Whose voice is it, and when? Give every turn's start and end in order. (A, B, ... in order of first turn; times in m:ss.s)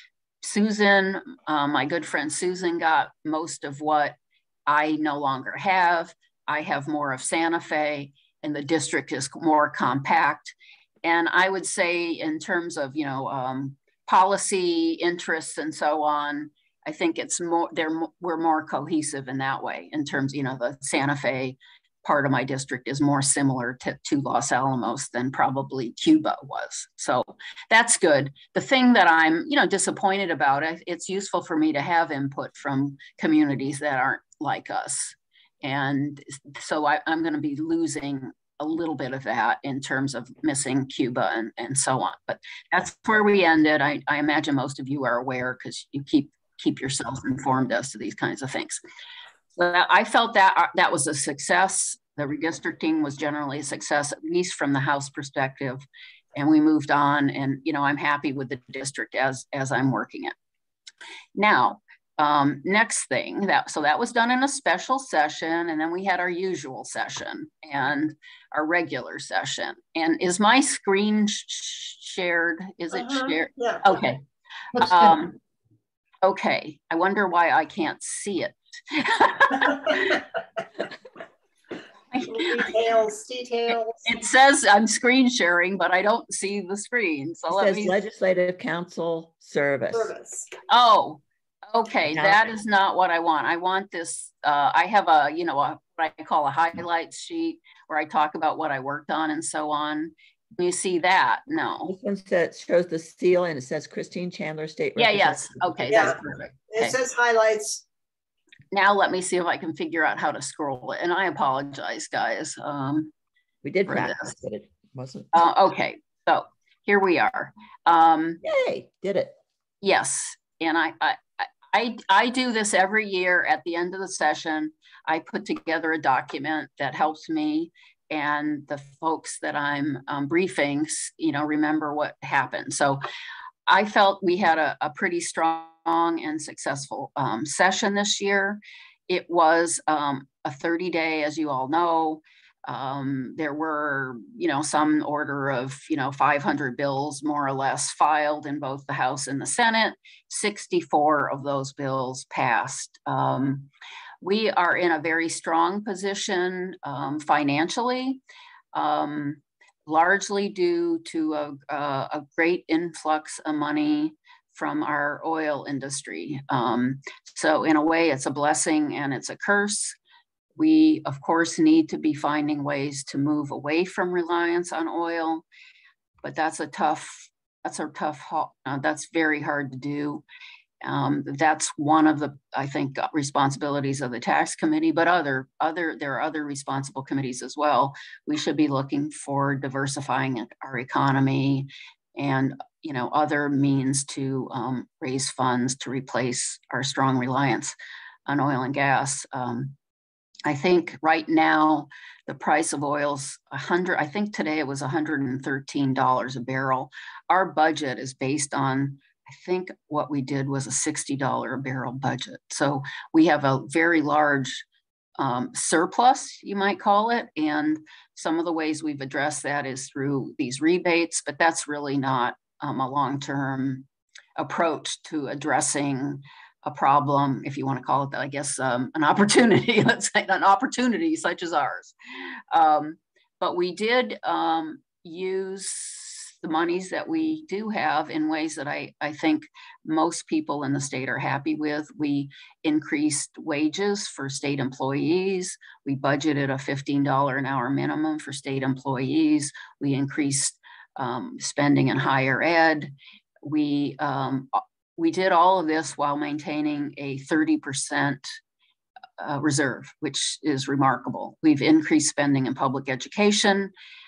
0:00.4-0:48.8 A
0:49.6-0:55.8 A
0:56.4-1:00.4 A
1:01.4-1:14.2 A
1:13.0-1:13.8 B
1:14.8-1:15.2 B
1:14.8-1:15.4 A
1:16.2-1:20.2 A
1:22.1-1:22.7 A
1:22.3-1:24.0 B
1:24.1-1:27.9 A
1:27.5-1:30.1 C
1:29.9-1:30.5 B
1:30.7-1:41.9 A
1:32.1-1:32.4 C
1:41.8-1:46.1 C
1:45.0-1:47.0 A
1:45.9-1:46.2 B
1:46.7-1:47.8 B
1:48.7-1:53.1 A
1:53.6-1:55.4 C
1:53.9-1:54.3 A
1:55.3-1:58.4 A
1:58.4-1:59.4 C
1:59.8-2:13.0 A
2:13.7-2:33.7 A
2:34.2-2:38.2 A
2:38.7-2:50.0 A
2:50.6-2:55.4 A
2:56.2-3:00.2 A
3:00.8-3:17.8 A
3:18.3-3:19.8 A
3:20.5-3:34.6 A
3:35.2-3:43.9 A
3:44.4-3:51.9 A
3:52.5-4:12.9 A
4:13.4-4:18.4 A
4:19.2-4:23.7 A